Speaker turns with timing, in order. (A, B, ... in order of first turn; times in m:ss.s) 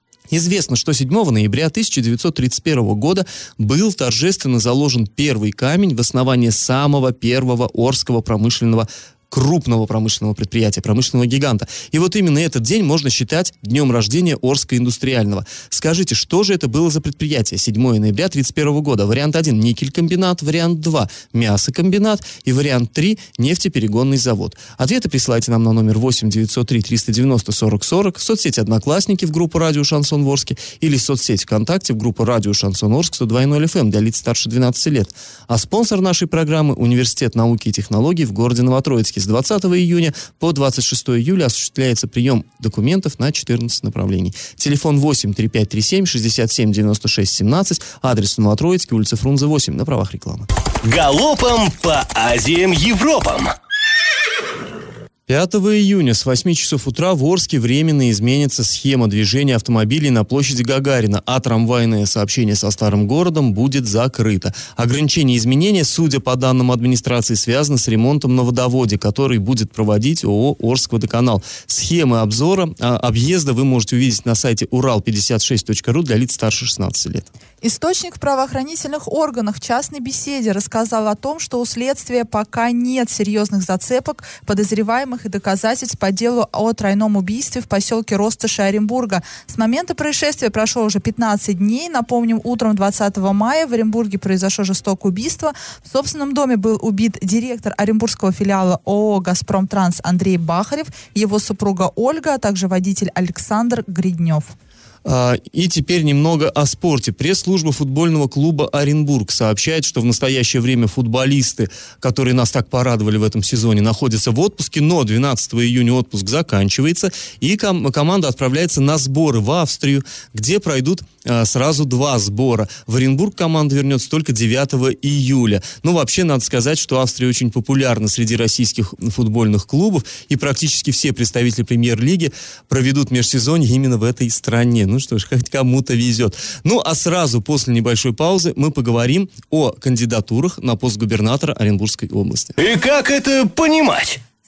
0:00.3-0:50.5 A
0:50.8-0:53.5 B
0:55.3-1:17.3 A
1:17.6-1:44.5 C
1:45.0-2:22.6 A
2:22.6-2:24.2 B